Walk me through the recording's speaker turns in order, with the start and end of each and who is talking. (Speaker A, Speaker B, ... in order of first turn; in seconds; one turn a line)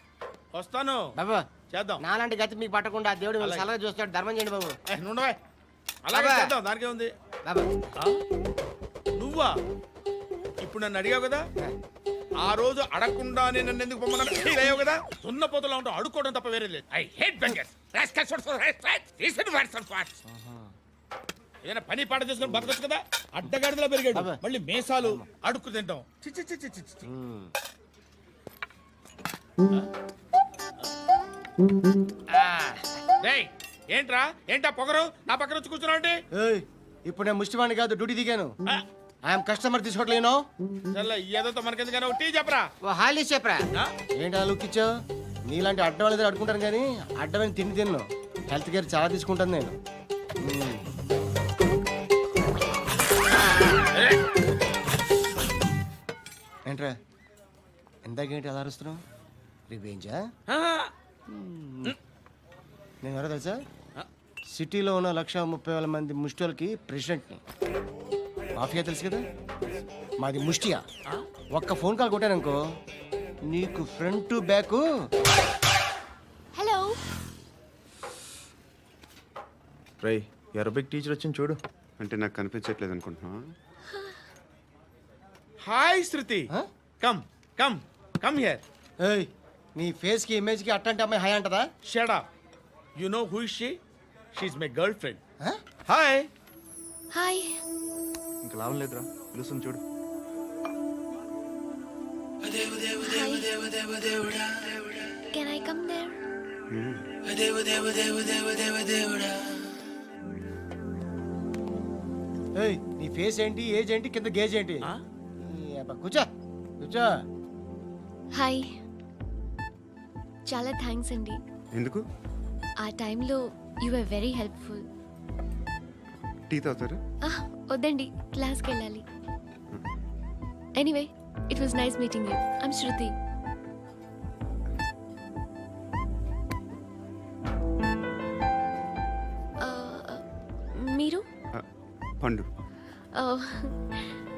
Speaker A: 0.5-1.1
Speaker B: 1.2-1.4
Speaker A: 1.7-2.0
Speaker B: 2.0-4.7
Speaker A: 4.9-5.4
Speaker A: 6.1-7.1
Speaker B: 6.2-6.5
Speaker B: 7.5-7.8
Speaker A: 9.2-9.5
Speaker A: 10.6-11.4
Speaker A: 12.4-20.2
Speaker B: 20.3-20.7
Speaker A: 21.6-27.0
Speaker B: 24.1-24.4
Speaker B: 25.0-25.3
Speaker B: 27.1-27.5
Speaker B: 32.3-32.8
Speaker A: 33.2-36.2
Speaker B: 36.3-38.5
Speaker B: 39.3-40.4
Speaker A: 40.9-42.7
Speaker B: 42.8-43.7
Speaker B: 44.2-44.9
Speaker B: 45.5-49.8
Speaker B: 50.4-50.8
Speaker B: 58.1-59.0
Speaker B: 59.7-60.2
Speaker A: 60.5-60.9
Speaker B: 61.3-62.0
Speaker B: 63.0-63.6
Speaker B: 64.5-67.4
Speaker B: 68.5-69.2
Speaker B: 70.2-70.8
Speaker B: 71.5-72.6
Speaker B: 73.5-74.8
Speaker C: 76.6-77.0
Speaker D: 80.0-81.5
Speaker E: 82.0-83.4
Speaker A: 85.6-88.6
Speaker B: 89.0-91.6
Speaker A: 91.8-92.3
Speaker A: 93.0-93.8
Speaker A: 94.3-95.2
Speaker A: 95.9-96.3
Speaker C: 97.1-97.6
Speaker D: 98.5-99.8
Speaker C: 103.0-103.5
Speaker C: 105.3-106.2
Speaker E: 106.7-107.0
Speaker B: 112.6-114.9
Speaker B: 115.5-116.3
Speaker B: 116.8-117.1
Speaker C: 118.3-118.7
Speaker C: 120.5-121.4
Speaker E: 121.8-122.0
Speaker C: 122.8-124.9
Speaker E: 126.5-127.0
Speaker C: 127.2-129.1
Speaker C: 130.8-133.2
Speaker C: 139.6-140.2
Speaker C: 140.8-141.2
Speaker E: 142.2-142.5
Speaker C: 143.1-144.1